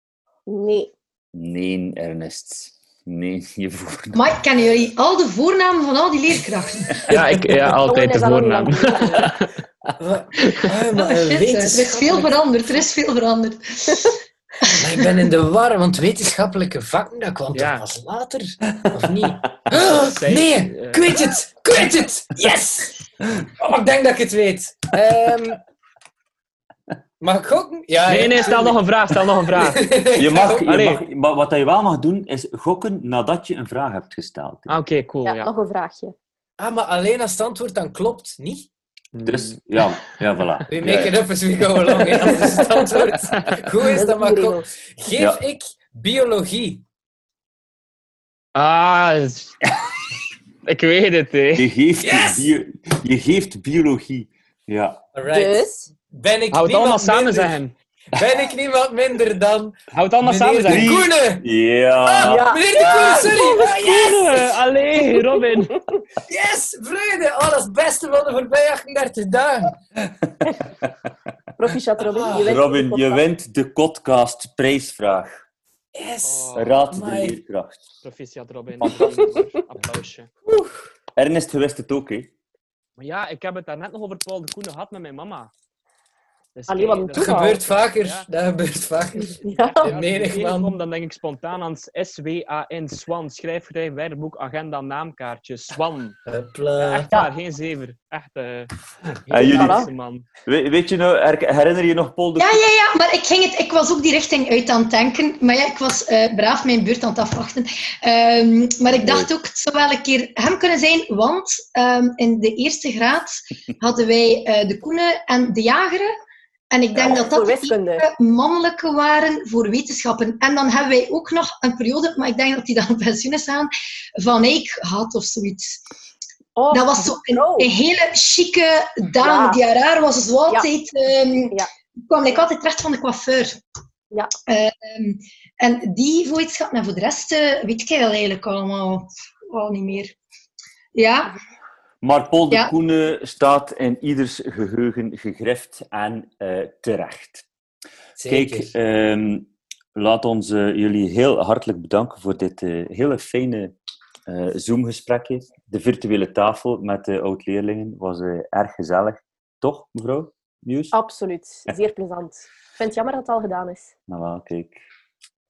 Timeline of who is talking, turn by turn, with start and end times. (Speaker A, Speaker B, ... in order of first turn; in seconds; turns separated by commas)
Speaker A: 0.5-0.9, Speaker B: 1.3-4.2, Speaker C: 4.1-7.0, Speaker D: 7.1-9.5, Speaker A: 7.8-9.3, Speaker E: 10.0-12.3, Speaker C: 11.1-15.0, Speaker E: 14.8-25.6, Speaker D: 17.5-17.9, Speaker D: 19.8-21.1, Speaker E: 27.2-28.8, Speaker D: 28.0-29.9, Speaker E: 29.6-30.7, Speaker B: 30.1-34.7, Speaker D: 30.6-31.0, Speaker D: 34.7-35.5, Speaker A: 35.2-36.1, Speaker E: 36.6-38.7, Speaker D: 39.1-39.6, Speaker B: 39.2-41.2, Speaker E: 40.7-46.8, Speaker A: 42.5-43.0, Speaker A: 43.9-44.6, Speaker B: 45.1-45.4, Speaker D: 48.5-49.6, Speaker D: 50.6-51.6, Speaker B: 51.5-55.0, Speaker E: 52.0-52.5, Speaker E: 55.1-57.6, Speaker A: 55.3-55.9, Speaker D: 56.5-57.7, Speaker E: 58.1-61.4, Speaker D: 59.9-60.9, Speaker B: 60.6-62.5, Speaker E: 62.0-64.5, Speaker A: 62.2-63.6, Speaker D: 63.5-65.8, Speaker E: 66.3-69.8, Speaker A: 71.6-73.2, Speaker E: 72.1-72.5, Speaker B: 72.2-75.4, Speaker E: 75.9-77.4, Speaker D: 76.2-76.8, Speaker B: 76.5-77.8, Speaker D: 78.0-80.3, Speaker B: 81.2-82.3, Speaker D: 83.0-85.5, Speaker D: 86.5-88.3, Speaker A: 86.7-87.6, Speaker E: 87.1-90.7, Speaker A: 89.2-89.8, Speaker D: 89.5-96.2, Speaker E: 96.2-97.1, Speaker D: 96.8-98.7, Speaker D: 99.3-100.2, Speaker E: 99.3-99.7, Speaker B: 99.3-99.9, Speaker A: 99.3-99.9, Speaker B: 100.4-102.6, Speaker C: 102.4-116.1, Speaker B: 108.9-109.3, Speaker C: 116.7-125.8, Speaker A: 117.0-118.1, Speaker A: 126.5-127.7, Speaker C: 126.7-133.6, Speaker A: 129.2-129.6, Speaker C: 134.5-140.2, Speaker C: 140.9-141.3, Speaker B: 142.0-147.4, Speaker E: 148.2-148.7, Speaker B: 148.2-153.7, Speaker B: 154.3-160.9, Speaker A: 160.9-163.9, Speaker B: 164.1-164.8